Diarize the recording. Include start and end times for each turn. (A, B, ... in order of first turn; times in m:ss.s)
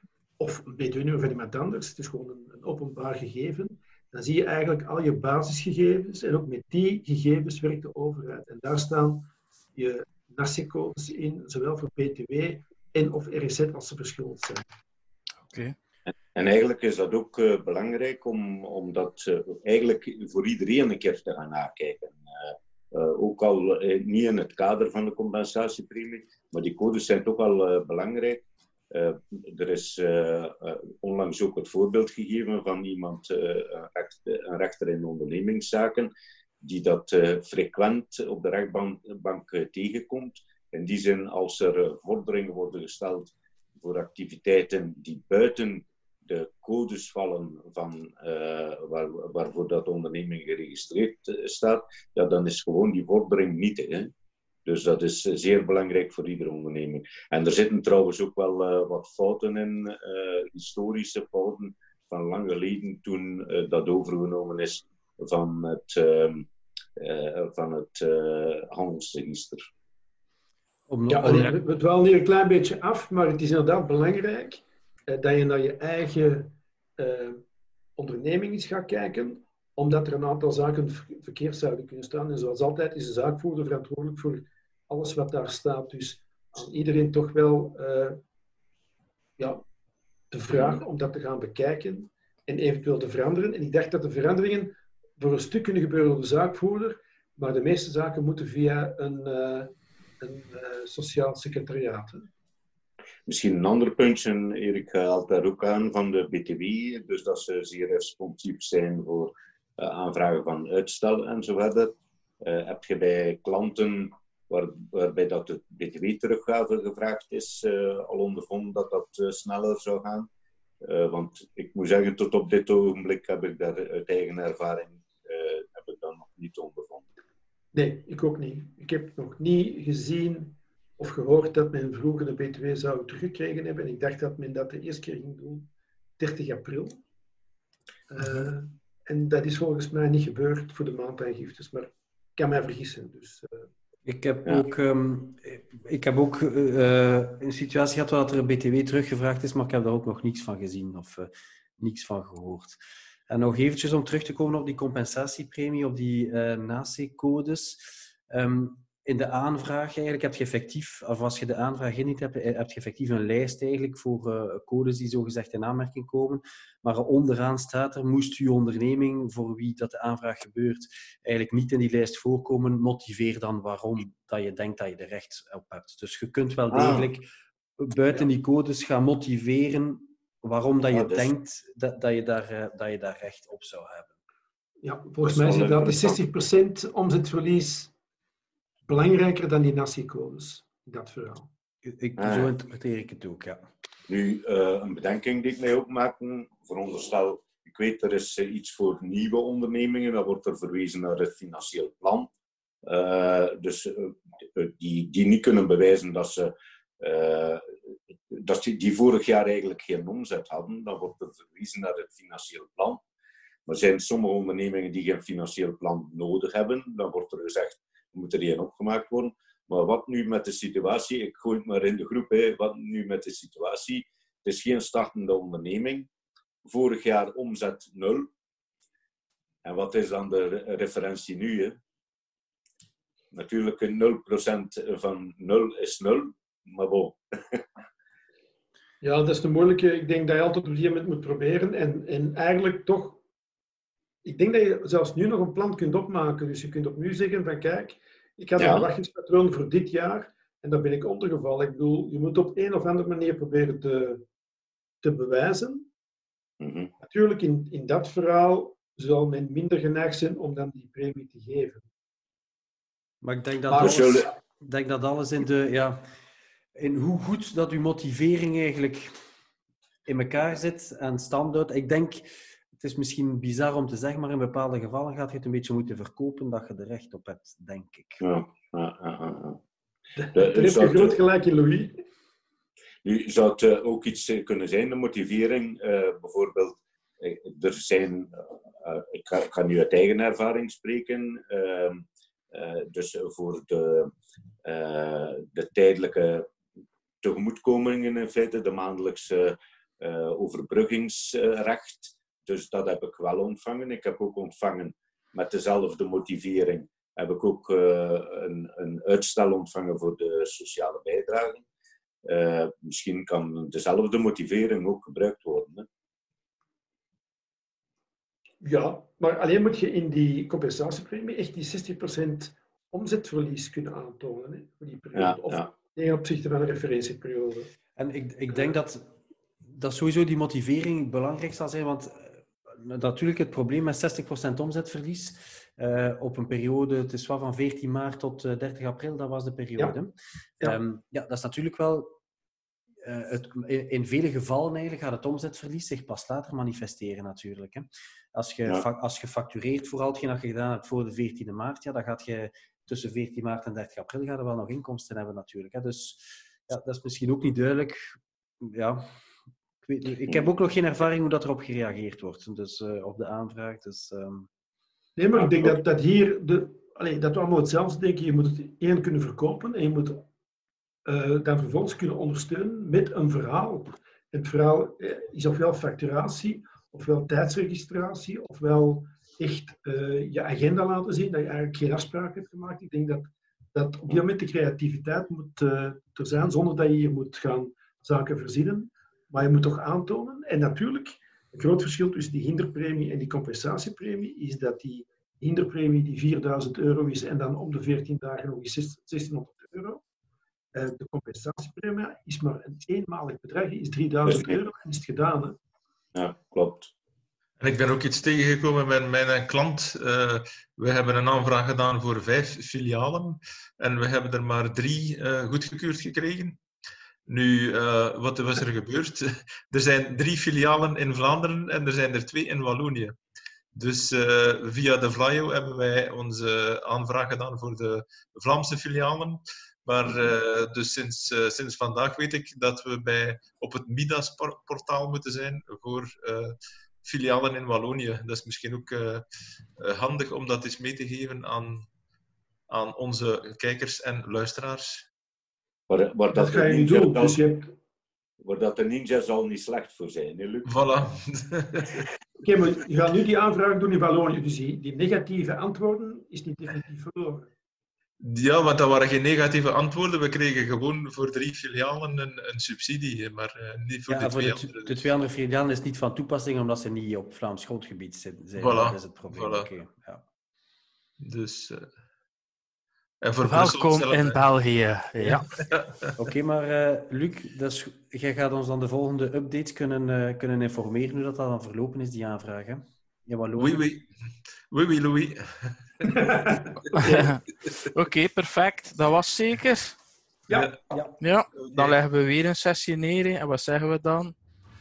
0:00.4-0:14.6 A
0:15.5-0:15.8 B
0:16.3-0:54.1 C
0:54.7-1:09.7 C
1:10.9-1:11.5 D
1:11.1-1:17.4 A
1:18.0-1:28.2 A
1:30.3-1:42.3 A
1:43.3-2:00.3 C
2:00.9-2:07.1 C
2:07.7-2:15.7 A
2:16.2-2:17.0 A
2:18.1-2:23.6 A
2:24.1-2:57.3 D
2:56.7-2:57.1 C
2:57.8-3:04.2 D
3:00.9-3:01.3 C
3:04.8-3:07.9 A
3:05.3-3:06.2 C
3:08.9-3:11.5 A
3:11.9-3:13.6 D
3:12.2-3:12.5 C
3:14.1-3:22.3 C
3:22.8-3:27.7 C
3:28.3-3:33.0 C
3:33.7-3:46.1 C
3:46.7-3:48.3 C
3:49.6-3:51.8 C
3:53.3-3:57.6 C
3:59.0-4:03.2 A
4:04.2-4:14.2 A
4:08.6-4:08.9 C
4:15.0-4:15.9 A
4:16.6-4:16.9 C
4:17.0-4:21.8 A
4:23.2-4:26.0 D
4:23.7-4:24.1 A
4:23.8-4:24.3 C
4:26.8-4:29.1 D
4:30.1-4:32.2 D
4:32.8-4:38.2 D
4:38.2-4:39.6 C
4:40.2-4:41.9 A
4:40.3-4:41.2 C
4:43.0-4:54.1 C
4:54.6-4:56.5 C
4:57.2-5:11.6 C
5:12.3-5:15.9 C
5:18.6-5:27.7 A
5:25.2-5:25.7 C
5:28.0-5:29.1 D
5:29.7-5:42.2 D
5:43.0-5:59.0 D
5:59.8-6:04.5 D
6:05.2-6:10.2 A
6:05.4-6:05.7 C
6:11.1-6:40.0 A
6:40.7-6:45.6 A
6:44.2-6:44.5 C
6:46.1-6:46.9 C
6:47.6-6:56.6 E
6:57.3-7:03.1 E
7:03.7-7:19.2 E
7:19.8-7:21.9 E
7:22.7-7:25.0 E
7:25.9-7:27.4 C
7:26.3-7:27.7 A
7:28.4-7:30.7 C
7:30.6-7:32.0 E
7:32.4-7:37.5 A
7:38.2-7:45.0 E
7:44.1-7:50.2 D
7:48.6-7:49.7 E
7:51.2-7:51.9 E
7:53.2-7:54.4 E
7:53.4-7:55.6 B
7:56.2-8:03.8 D
8:03.6-8:04.1 E
8:04.7-8:05.4 E
8:06.2-8:07.2 A
8:07.0-8:10.0 B
8:10.5-8:11.2 A
8:10.5-8:10.8 E
8:11.2-8:14.3 B
8:11.5-8:11.8 E